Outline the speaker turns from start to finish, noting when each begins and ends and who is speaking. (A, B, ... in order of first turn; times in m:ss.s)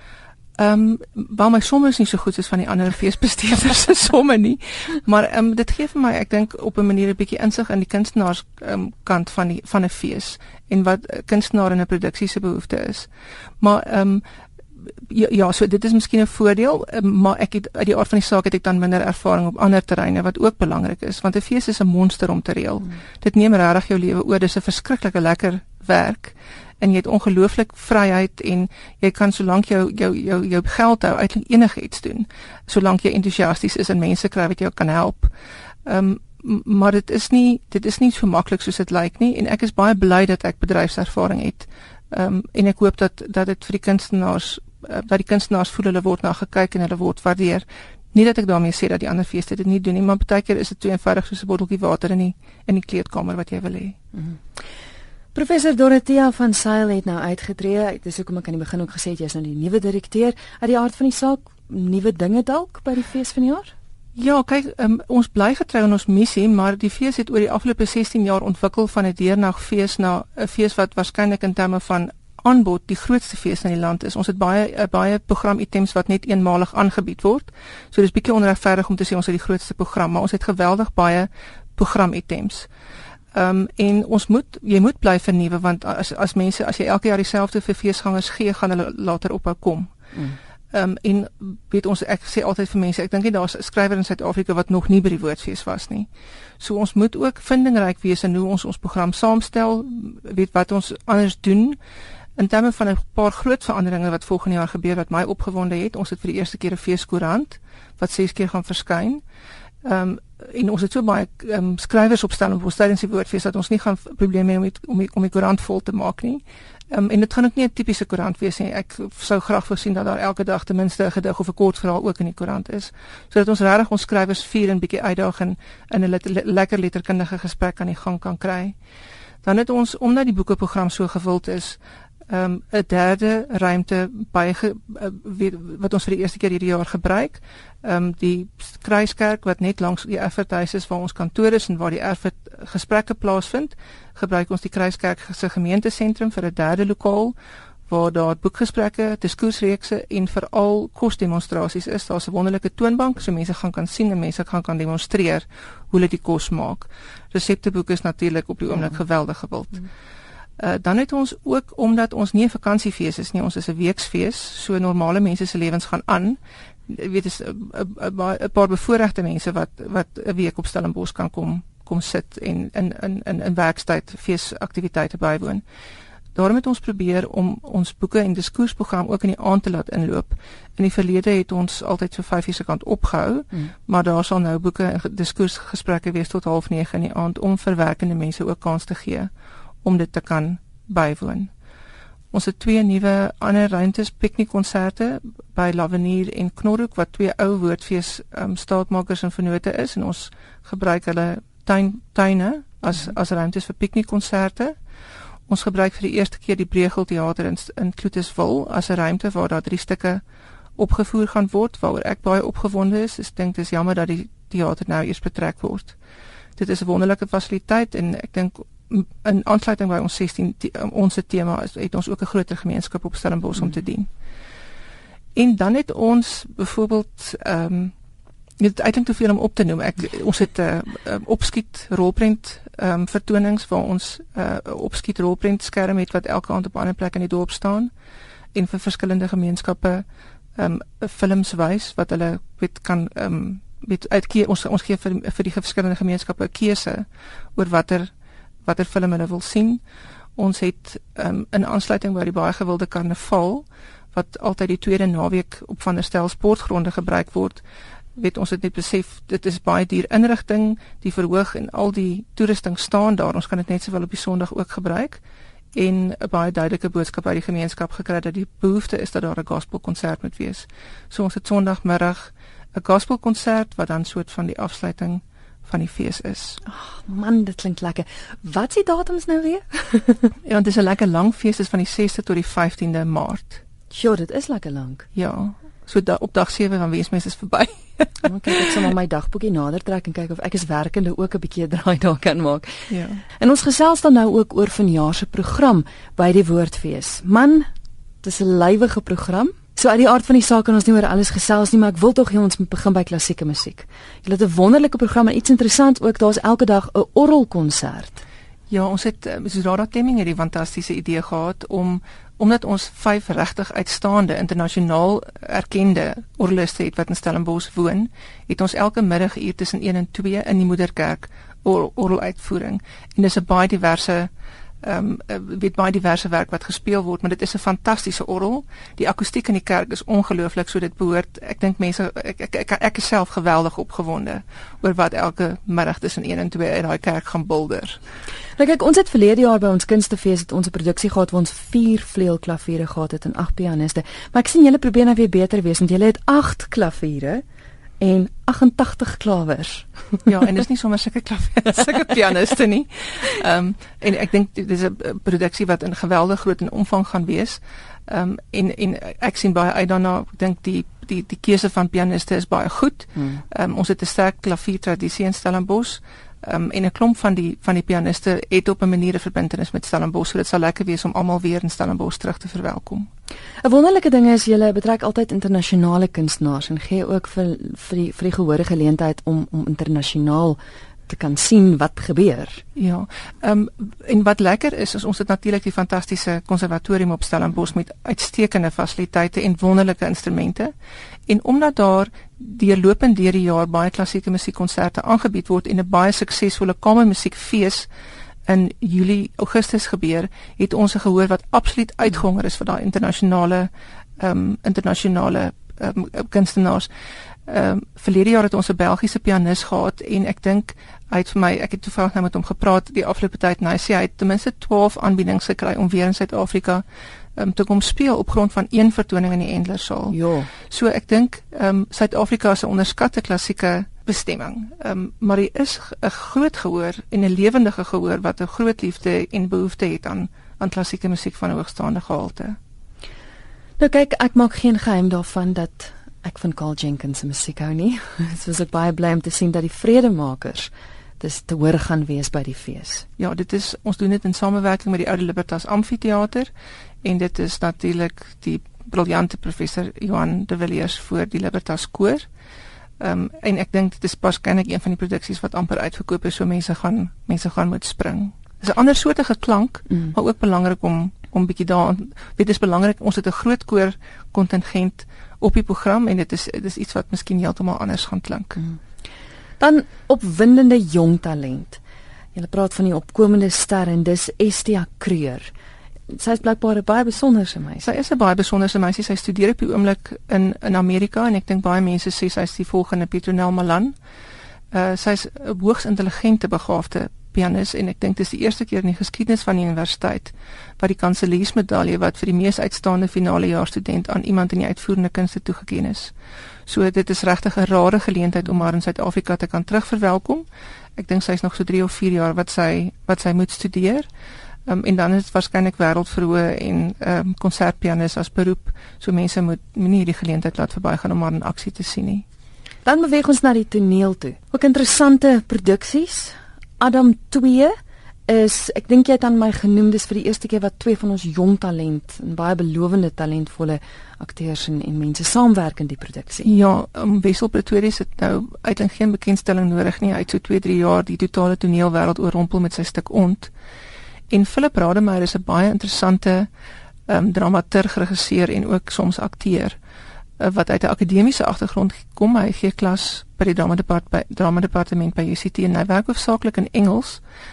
0:00.6-0:14.2 A
0:15.0-0:35.3 A
0:35.9-0:54.0 A
0:55.3-1:03.7 B
1:04.2-1:22.7 A
1:23.3-1:29.9 A
1:30.1-1:30.4 B
1:30.7-1:36.1 A
1:36.6-1:41.8 A
1:42.4-1:49.2 A
1:49.8-2:08.8 A
2:09.4-2:27.4 A
2:27.9-2:39.9 A
2:40.6-2:55.6 A
2:56.4-3:09.3 A
3:09.8-3:11.5 A
3:12.3-3:24.8 A
3:25.5-3:30.2 A
3:30.8-3:36.0 A
3:36.6-3:44.1 A
3:45.4-3:47.9 A
3:48.6-3:57.9 A
3:58.5-4:08.1 A
4:08.6-4:09.8 A
4:10.4-4:17.6 A
4:18.2-4:25.2 A
4:25.7-4:36.6 A
4:36.7-4:40.3 B
4:40.4-4:43.6 A
4:43.9-4:45.1 B
4:45.2-4:48.3 A
4:48.2-4:52.9 B
4:52.9-4:53.2 A
4:53.4-4:57.7 B
4:58.2-5:08.2 B
5:08.7-5:24.3 A
5:24.8-5:38.0 A
5:38.6-5:47.4 B
5:48.0-5:50.3 B
5:50.3-6:13.1 A
6:03.2-6:03.4 B
6:13.6-6:22.6 B
6:22.8-6:30.7 A
6:31.3-6:37.9 A
6:38.5-6:46.9 A
6:47.5-6:56.8 A
6:57.4-7:00.2 A
7:00.1-7:00.5 B
7:00.7-7:12.6 A
7:13.8-7:23.1 B
7:23.2-7:26.5 A
7:27.0-7:32.3 A
7:33.0-7:48.6 A
7:49.6-7:51.8 B
7:52.4-7:55.5 B
7:56.1-7:57.9 B
7:57.8-8:04.0 A
8:04.7-8:16.1 A
8:16.7-8:24.1 A
8:24.7-8:32.2 A
8:32.8-8:37.7 B
8:38.3-8:46.5 B
8:46.4-8:53.5 A
8:54.3-8:56.5 A
8:57.1-8:59.8 A
9:00.4-9:07.2 A